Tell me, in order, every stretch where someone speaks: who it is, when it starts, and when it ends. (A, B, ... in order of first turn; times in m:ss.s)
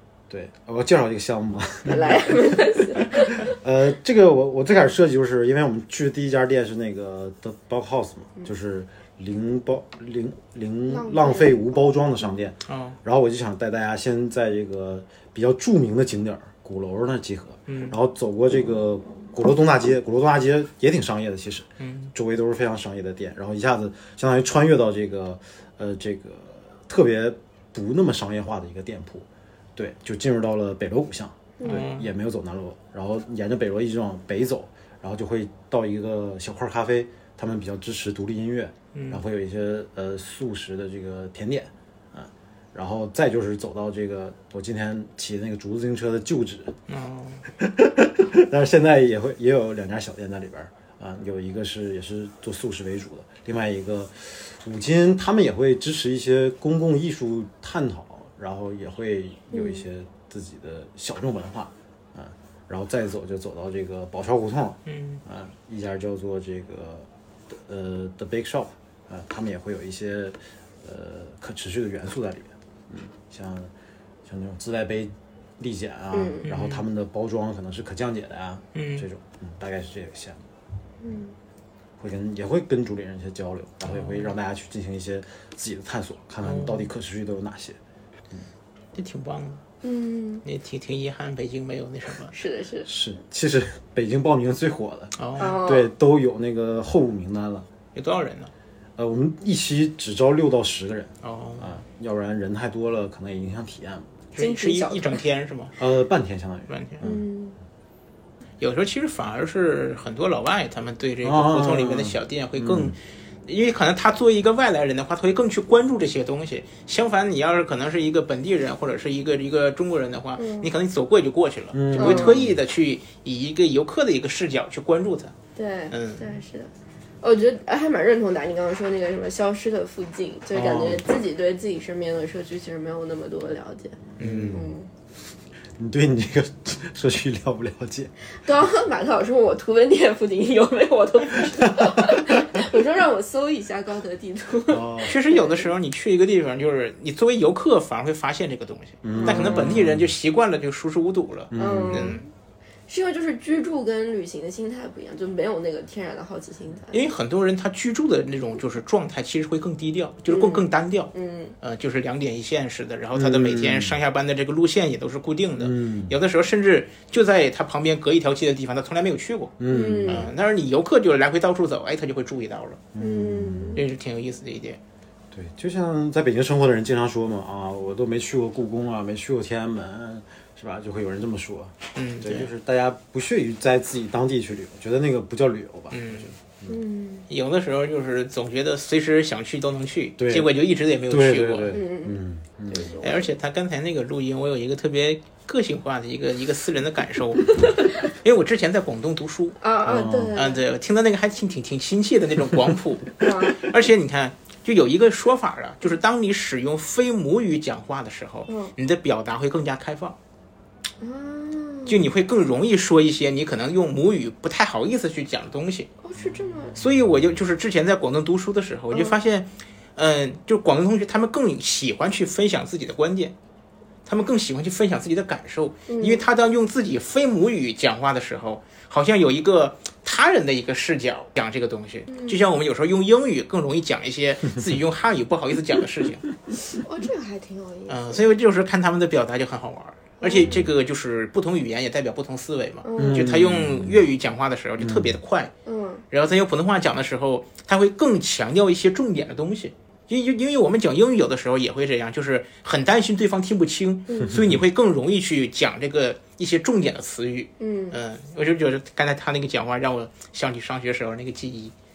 0:00.3-0:46.8 A
0:01.9-0:03.4 B
0:10.9-0:11.7 B
0:12.7-0:13.0 C
0:17.7-0:18.0 C
0:21.8-0:22.1 C
0:31.7-0:32.1 C
0:38.9-0:39.2 C
0:46.9-0:47.4 C
0:47.6-1:13.7 A
0:59.5-0:59.8 B
1:04.9-1:05.2 C
1:14.2-1:20.4 A
1:16.1-1:16.4 B
1:16.4-1:16.9 C
1:18.8-1:19.0 C
1:21.0-1:21.3 B
1:22.0-1:27.8 A
1:23.9-1:24.3 C
1:26.4-1:26.9 C
1:28.9-1:29.6 C
1:29.8-1:30.4 B
1:30.4-1:32.3 C
1:32.3-1:32.9 B
1:32.8-1:37.7 A
1:35.2-1:35.6 C
1:35.4-1:35.9 B
1:38.0-1:38.5 C
1:39.0-1:44.2 A
1:41.2-1:41.8 C
1:44.3-1:45.8 C
1:44.4-1:45.2 B
1:45.8-1:47.2 A
1:46.7-1:47.0 C
1:47.0-1:47.6 B
1:48.6-1:53.0 C
1:51.2-1:53.0 A
1:53.5-2:05.4 C
2:00.4-2:00.7 B
2:01.7-2:02.6 A
2:02.0-2:02.4 B
2:05.6-2:06.7 B
2:05.9-2:06.2 C
2:07.2-2:14.0 B
2:10.5-2:11.0 A
2:14.2-2:14.7 A
2:14.2-2:14.6 C
2:14.5-2:14.9 B
2:15.8-2:18.1 A
2:18.4-2:25.7 B
2:21.7-2:22.3 A
2:24.7-2:25.2 A
2:25.0-2:32.2 C
2:29.0-2:30.1 A
2:29.1-2:29.8 B
2:31.5-2:32.2 A
2:31.6-2:32.3 B
2:32.9-2:37.0 B
2:36.9-2:49.6 C
2:40.3-2:41.6 B
2:43.1-2:44.0 A
2:45.6-2:46.2 A
2:49.6-2:50.3 A
2:49.7-2:50.3 B
2:50.1-2:52.8 C
2:52.9-2:53.8 A
2:53.0-2:53.8 B
2:53.8-2:54.8 C
2:55.3-3:06.8 A
3:02.0-3:02.5 C
3:05.9-3:06.3 C
3:06.7-3:07.3 B
3:07.3-3:11.8 C
3:10.2-3:10.5 A
3:11.1-3:12.9 A
3:11.7-3:12.2 B
3:12.7-3:13.3 B
3:13.0-3:19.6 C
3:19.6-3:20.6 B
3:19.9-3:20.3 A
3:20.3-3:30.2 C
3:23.2-3:23.6 B
3:28.5-3:28.7 B
3:31.0-3:32.0 B
3:31.9-3:35.9 C
3:36.0-3:36.8 B
3:36.8-3:43.3 C
3:44.1-3:56.2 C
3:45.9-3:46.2 B
3:52.1-3:52.4 B
3:56.8-3:58.3 B
3:57.9-4:05.5 C
4:00.2-4:00.6 B
4:02.8-4:03.2 B
4:03.0-4:04.1 A
4:04.8-4:05.2 A
4:05.7-4:06.0 B
4:06.1-4:21.7 C
4:14.3-4:14.6 A
4:17.6-4:18.0 B